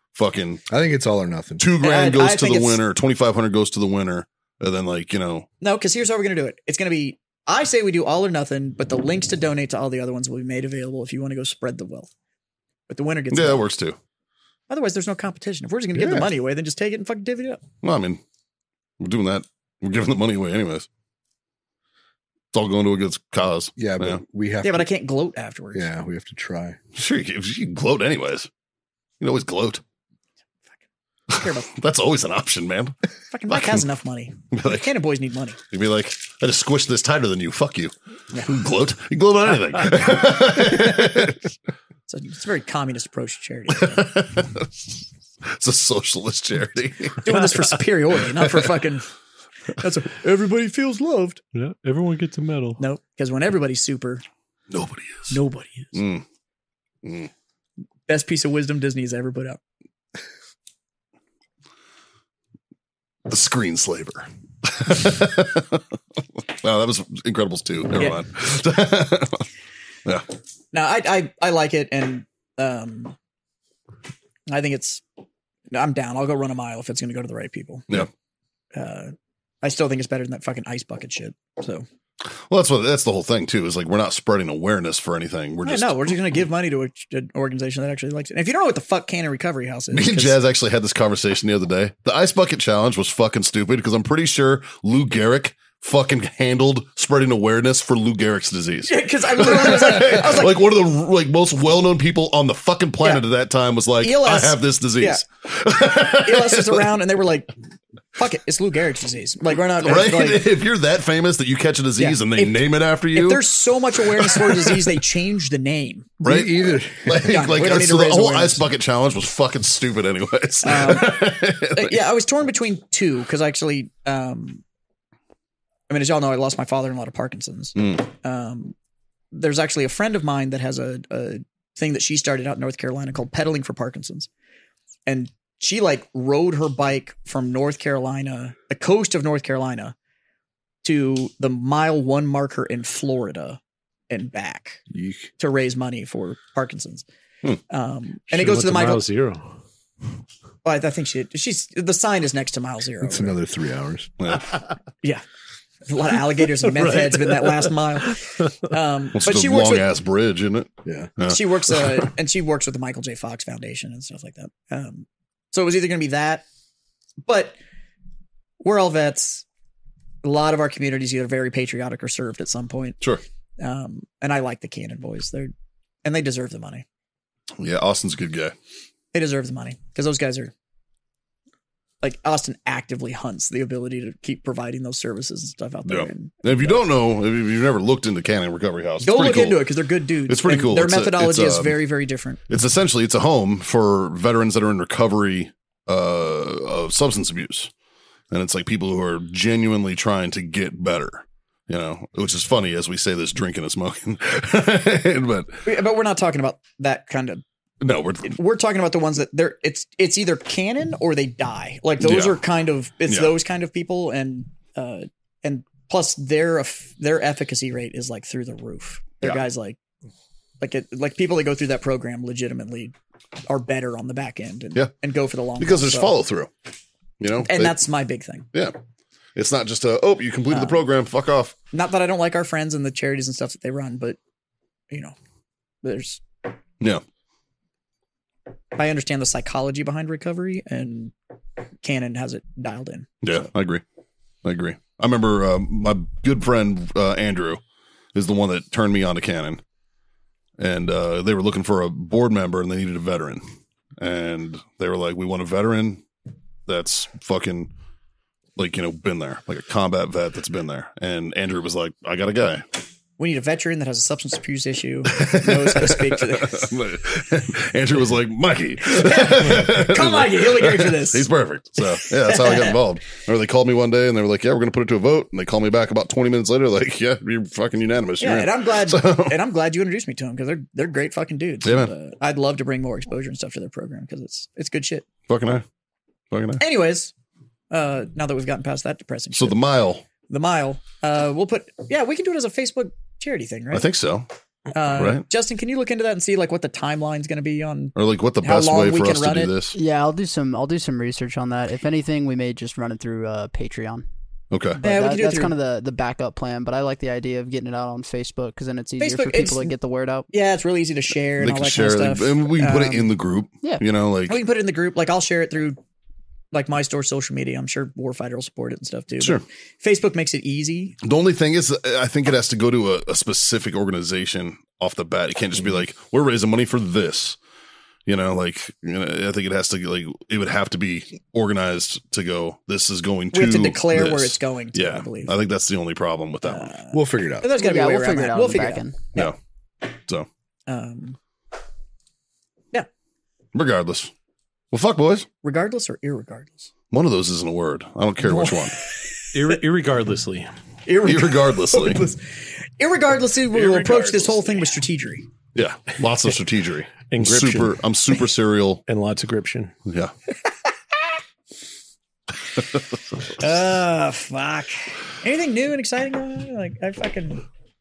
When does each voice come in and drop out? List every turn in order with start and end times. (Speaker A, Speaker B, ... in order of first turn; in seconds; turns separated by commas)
Speaker A: 0.1-0.6, Speaker B: 0.7-1.6, Speaker A: 1.6-5.5, Speaker C: 1.8-2.8, Speaker C: 5.6-12.1, Speaker C: 12.9-13.7, Speaker A: 13.3-14.0, Speaker C: 14.7-17.6, Speaker B: 15.9-16.3, Speaker A: 17.8-18.2, Speaker A: 19.0-20.9, Speaker A: 22.5-24.2, Speaker B: 23.8-24.9, Speaker C: 24.6-25.9, Speaker B: 25.7-26.8, Speaker A: 26.9-28.5, Speaker A: 29.2-29.8, Speaker C: 31.3-31.7, Speaker A: 31.3-33.0, Speaker C: 33.3-35.6, Speaker A: 33.5-33.8, Speaker A: 34.5-34.9, Speaker A: 35.7-41.4, Speaker C: 42.1-44.1, Speaker A: 43.7-44.9, Speaker A: 45.5-47.5, Speaker C: 47.2-49.1, Speaker C: 49.8-51.4, Speaker D: 51.5-52.8, Speaker C: 52.8-54.2, Speaker A: 54.7-55.4, Speaker C: 55.3-56.0, Speaker A: 55.9-56.2, Speaker A: 57.0-57.3, Speaker C: 58.1-59.6, Speaker A: 63.3-65.8, Speaker A: 66.5-69.5, Speaker C: 70.7-73.2, Speaker C: 74.5-75.0, Speaker C: 75.7-78.0, Speaker C: 78.7-81.9, Speaker A: 82.5-86.1, Speaker C: 85.6-90.3, Speaker A: 89.9-106.8, Speaker C: 98.9-100.6, Speaker C: 104.0-105.2, Speaker C: 105.9-107.5, Speaker C: 108.2-110.5, Speaker A: 109.8-113.5, Speaker C: 112.0-116.2, Speaker A: 114.1-114.8, Speaker B: 116.2-117.3, Speaker A: 116.2-122.0, Speaker C: 117.2-118.6, Speaker C: 120.6-124.6, Speaker C: 125.9-128.8, Speaker A: 127.8-128.0, Speaker C: 129.3-134.3, Speaker C: 135.1-139.9, Speaker C: 140.8-143.6, Speaker C: 144.1-144.8, Speaker B: 144.9-145.3, Speaker C: 145.4-147.1, Speaker C: 147.7-149.0, Speaker D: 148.3-149.4, Speaker C: 150.6-153.4, Speaker B: 153.0-154.1, Speaker A: 154.2-154.5, Speaker C: 155.9-159.9, Speaker D: 156.6-158.4, Speaker A: 159.2-162.1, Speaker B: 160.8-161.1, Speaker C: 161.3-166.4, Speaker C: 167.2-167.6, Speaker C: 168.6-169.4, Speaker C: 170.2-173.0, Speaker C: 173.6-175.5, Speaker C: 176.0-176.8, Speaker A: 177.6-178.5, Speaker C: 179.1-180.5, Speaker C: 182.0-186.8, Speaker A: 185.9-189.6, Speaker C: 189.0-192.4, Speaker A: 190.3-191.8, Speaker A: 192.5-197.7, Speaker A: 198.3-205.6, Speaker C: 205.7-207.4, Speaker A: 207.8-208.3, Speaker C: 208.2-219.8, Speaker A: 212.0-212.4, Speaker A: 213.1-213.3, Speaker C: 220.6-222.9, Speaker C: 223.5-226.1, Speaker A: 225.6-226.5, Speaker A: 227.2-227.8, Speaker C: 227.4-228.5, Speaker A: 229.4-231.6, Speaker C: 230.5-230.8, Speaker C: 231.7-234.2, Speaker C: 235.8-236.2, Speaker C: 238.7-241.1, Speaker C: 241.8-243.1, Speaker A: 243.2-243.8, Speaker A: 244.4-247.6, Speaker A: 248.1-249.6, Speaker A: 250.6-253.4, Speaker A: 254.0-256.0, Speaker A: 256.7-257.7, Speaker A: 258.6-262.6, Speaker C: 263.2-266.7, Speaker A: 265.1-279.4, Speaker C: 268.9-271.3, Speaker C: 271.8-272.8, Speaker C: 278.2-285.1, Speaker A: 281.6-281.9, Speaker A: 285.3-285.6, Speaker A: 286.3-286.6, Speaker C: 286.6-287.1, Speaker C: 287.7-289.6, Speaker A: 289.4-290.1, Speaker C: 290.3-293.9, Speaker A: 293.7-294.3, Speaker C: 294.7-299.5, Speaker A: 294.9-295.2, Speaker A: 298.0-299.8, Speaker E: 299.7-304.1, Speaker A: 304.5-304.8, Speaker E: 304.8-310.3, Speaker C: 304.8-305.5, Speaker C: 309.0-309.7, Speaker C: 310.3-313.1, Speaker A: 311.4-314.4, Speaker C: 314.3-315.8, Speaker C: 316.5-321.0, Speaker A: 321.0-327.4, Speaker A: 328.1-336.7, Speaker C: 333.3-335.3, Speaker C: 336.4-339.3, Speaker B: 336.9-337.5, Speaker E: 337.5-339.0, Speaker A: 339.9-340.3, Speaker C: 340.7-341.2, Speaker A: 343.5-344.1, Speaker A: 344.7-345.3, Speaker C: 345.4-346.7, Speaker A: 346.9-348.8, Speaker C: 348.2-349.1, Speaker D: 349.3-350.5, Speaker C: 350.9-355.3, Speaker A: 351.0-352.0, Speaker D: 353.5-354.5, Speaker A: 355.6-358.8, Speaker D: 357.1-357.8, Speaker D: 358.9-359.7, Speaker A: 359.9-360.1, Speaker C: 363.4-367.4